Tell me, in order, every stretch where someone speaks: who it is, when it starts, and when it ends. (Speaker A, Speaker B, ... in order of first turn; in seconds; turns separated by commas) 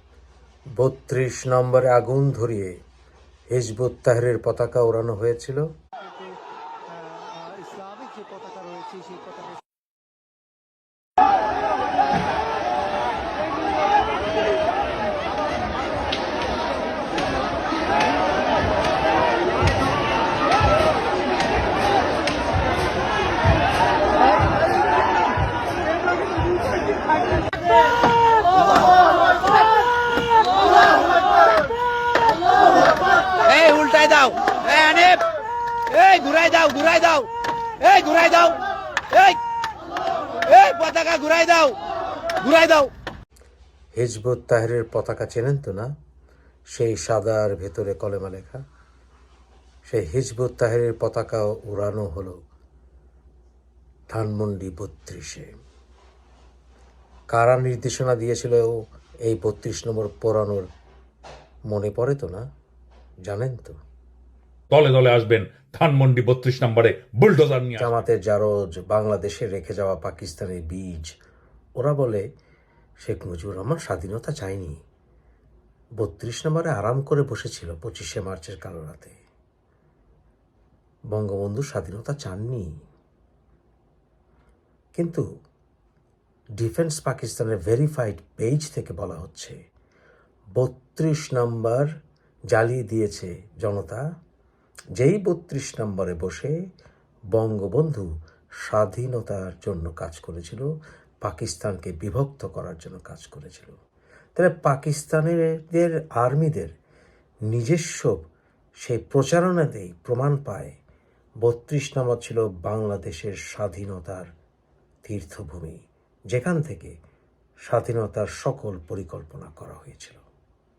Speaker A: 0.8-2.7, Speaker A: 3.5-5.6, Speaker B: 7.2-9.5, Speaker C: 33.4-35.2, Speaker C: 35.9-38.6, Speaker C: 39.1-39.4, Speaker C: 40.4-41.8, Speaker C: 42.4-42.9, Speaker A: 43.9-45.9, Speaker A: 46.7-48.6, Speaker A: 49.8-52.4, Speaker A: 54.1-55.5, Speaker A: 57.3-60.7, Speaker A: 61.7-62.5, Speaker A: 63.2-63.8, Speaker D: 64.7-67.9, Speaker A: 67.8-71.1, Speaker A: 71.8-72.2, Speaker A: 73.0-74.8, Speaker A: 76.0-79.2, Speaker A: 81.1-82.7, Speaker A: 85.0-85.2, Speaker A: 86.6-89.5, Speaker A: 90.5-91.9, Speaker A: 92.5-94.0, Speaker A: 95.0-96.5, Speaker A: 97.3-98.1, Speaker A: 98.6-100.7, Speaker A: 101.2-103.7, Speaker A: 104.3-106.7, Speaker A: 107.5-108.2, Speaker A: 108.8-110.8, Speaker A: 111.4-114.2, Speaker A: 115.0-115.8, Speaker A: 116.3-117.0, Speaker A: 117.7-120.2